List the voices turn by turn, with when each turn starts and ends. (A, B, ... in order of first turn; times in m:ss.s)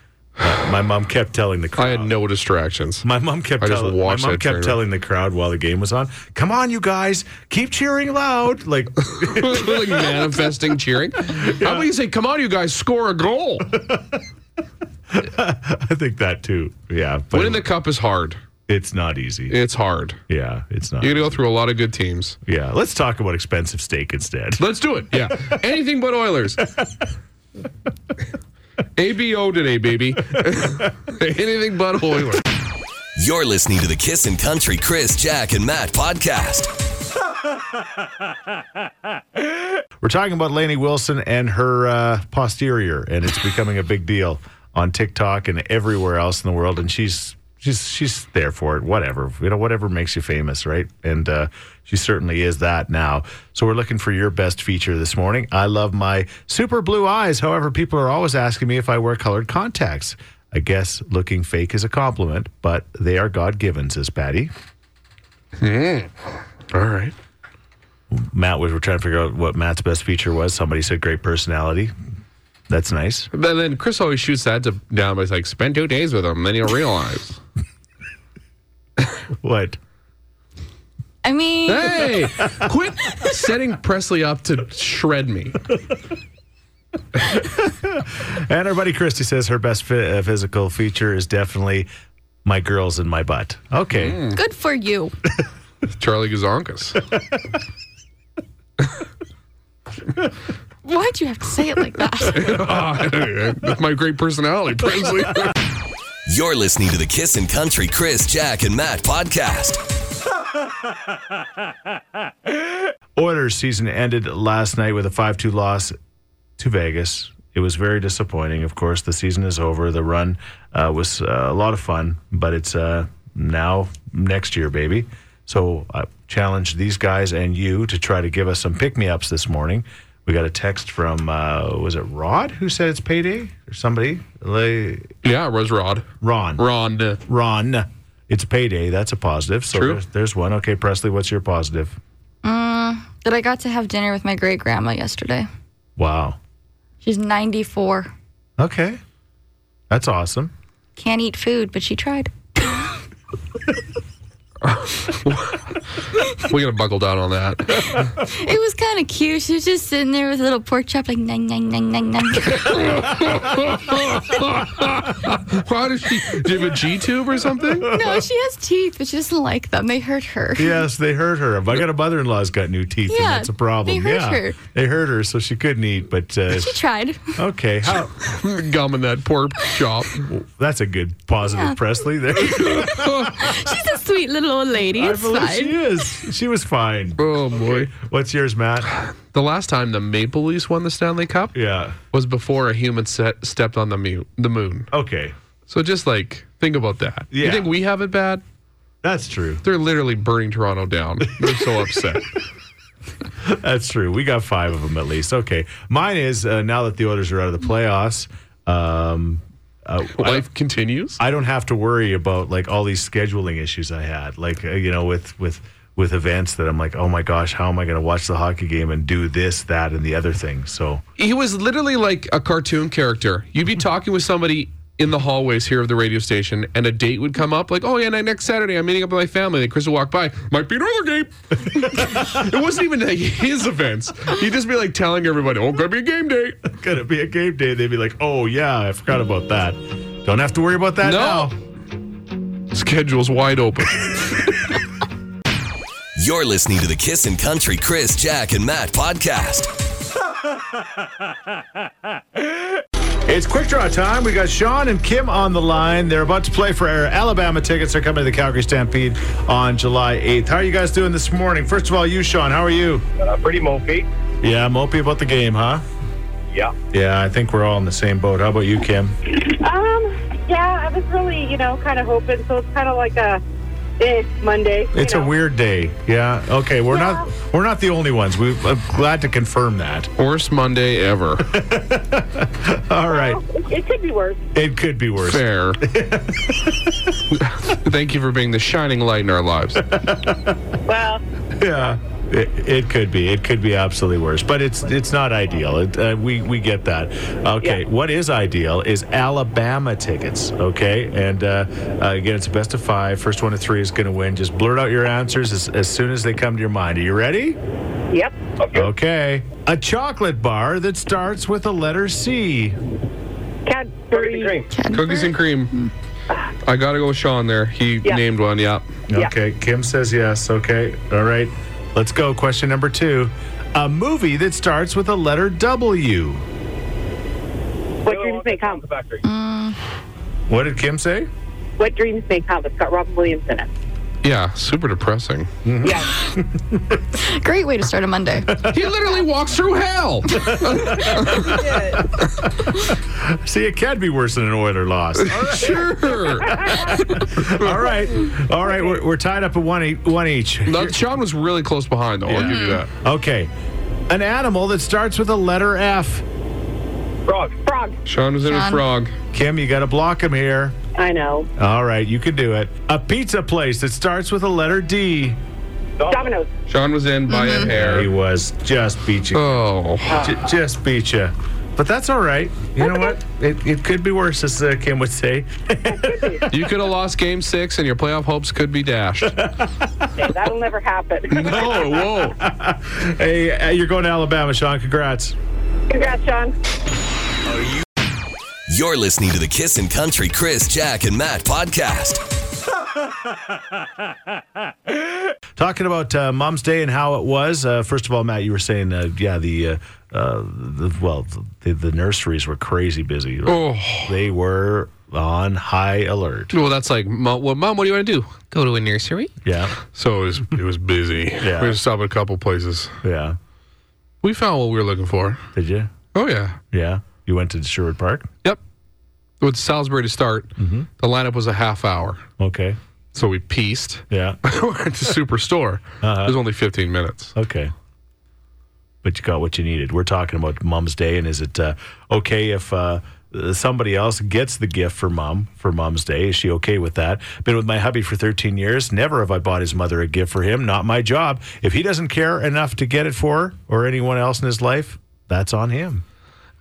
0:00.4-0:02.1 A
0:01.8-0:03.1 B
0:03.0-0:10.0 A
0:03.6-0:04.8 B
0:09.2-0:13.8 B
0:11.3-0:11.9 A
0:13.8-0:14.2 A
0:15.1-0:17.7 A
0:17.3-0:18.4 B
0:18.7-0:19.6 A
0:19.5-0:20.2 B
0:20.3-0:21.3 A
0:21.0-0:22.4 B
0:22.4-0:24.6 A
0:24.6-0:26.8 B
0:29.0-0:32.4 B
0:33.2-0:36.7 C
0:40.0-1:04.5 A
1:05.6-1:06.2 B
1:06.7-1:07.1 B
1:08.1-1:11.9 A
1:12.7-1:13.3 A
1:13.3-1:17.4 B
1:19.4-1:19.8 A
1:21.2-1:22.1 D
1:21.7-1:25.6 B
1:27.3-1:31.9 A
1:32.4-1:34.2 A
1:34.0-1:34.4 B
1:34.3-1:35.1 D
1:35.9-1:37.0 B
1:40.8-1:42.5 D
1:42.3-1:45.6 B
1:46.3-1:49.8 C
1:53.2-1:56.0 A
1:56.6-2:15.1 A
2:15.2-2:16.1 B
2:16.2-2:16.6 A
2:16.6-2:17.2 B
2:17.3-2:22.0 A
2:19.7-2:20.0 B
2:22.4-2:25.5 D
2:26.0-2:26.4 A
2:27.0-2:28.1 D
2:28.6-2:29.0 A
2:29.9-2:30.5 A
2:31.0-2:32.3 D
2:34.6-2:35.6 B
2:36.3-2:38.1 B
2:37.9-2:42.8 D
2:42.6-2:47.9 B
2:47.8-2:48.2 A
2:47.8-2:50.8 D
2:50.6-2:56.8 A
2:53.1-2:54.6 D
2:56.5-2:57.4 D
2:57.4-2:58.3 A
2:58.2-3:00.3 B
3:00.2-3:03.3 A
3:01.4-3:01.8 D
3:02.5-3:05.8 D
3:02.7-3:03.3 B
3:05.0-3:08.9 A
3:07.2-3:07.9 B
3:09.3-3:14.9 B
3:11.5-3:12.0 A
3:14.9-3:15.4 A
3:15.7-3:18.4 B
3:17.3-3:17.7 A
3:19.0-3:19.6 A
3:19.6-3:22.4 B
3:23.4-3:30.5 A
3:30.2-3:31.2 B
3:31.2-3:41.0 A
3:41.2-3:56.7 B
3:52.0-3:52.3 A
3:56.7-4:01.6 A
4:01.0-4:01.5 B
4:02.7-4:04.8 B
4:06.2-4:09.7 C
4:13.3-4:23.0 A
4:23.2-4:24.1 E
4:24.4-4:25.8 A
4:26.9-4:29.2 A
4:29.3-4:33.4 F
4:34.0-4:35.3 F
4:34.9-4:40.1 A
4:36.9-4:37.2 F
4:40.2-4:41.6 B
4:41.5-4:43.4 A
4:43.1-4:44.4 F
4:44.5-4:47.0 A
4:45.2-4:45.8 B
4:47.3-4:49.9 B
4:49.8-4:50.6 A
4:50.9-4:51.2 F
4:51.6-5:07.6 A
5:08.1-5:08.4 F
5:08.6-5:08.9 E
5:08.7-5:12.8 A
5:13.7-5:14.6 F
5:14.1-5:14.7 E
5:14.7-5:15.9 D
5:14.9-5:15.7 B
5:16.6-5:18.9 B
5:19.1-5:26.4 A
5:28.0-5:28.8 F
5:28.0-5:29.2 E
5:29.2-5:29.8 D
5:30.5-5:31.3 A
5:31.8-5:33.7 F
5:34.2-5:35.5 B
5:35.6-5:37.0 A
5:35.8-5:36.3 F
5:37.1-5:38.5 D
5:38.5-5:38.9 A
5:38.6-5:41.7 B
5:40.3-5:51.0 A
5:41.4-5:42.1 F
5:45.2-5:47.9 B
5:50.7-5:52.9 B
5:52.3-5:53.5 A
5:52.4-5:52.8 D
5:54.1-5:56.2 A
5:57.3-5:57.6 E
5:57.6-5:58.0 F
5:58.0-5:59.1 B
5:58.4-5:58.8 D
5:59.3-6:00.8 A
6:01.0-6:01.5 F
6:01.6-6:05.4 A
6:06.0-6:06.4 E
6:06.1-6:06.5 F
6:06.7-6:08.1 B
6:07.3-6:07.7 D
6:07.5-6:09.6 A
6:09.3-6:10.3 B
6:10.1-6:10.4 F
6:10.2-6:16.6 A
6:15.9-6:16.4 F
6:16.5-6:19.4 B
6:19.2-6:20.1 A
6:20.2-6:22.0 F
6:21.3-6:22.4 B
6:21.5-6:25.4 A
6:25.9-6:26.6 F
6:27.5-6:27.8 C
6:28.7-6:32.2 C
6:35.6-6:46.5 A
6:43.5-6:44.1 B
6:46.5-6:49.3 B
6:49.4-6:49.7 A
6:49.9-6:53.0 B
6:51.4-6:51.8 A
6:53.0-6:53.4 A
6:54.2-6:55.4 B
6:55.5-6:55.9 A
6:56.1-6:56.6 B
6:56.7-6:58.3 A
6:59.4-7:02.2 B
7:00.6-7:00.9 A
7:02.4-7:02.8 A
7:03.1-7:07.3 B
7:04.1-7:04.4 A
7:06.0-7:06.4 A
7:07.4-7:07.7 A
7:09.0-7:26.0 A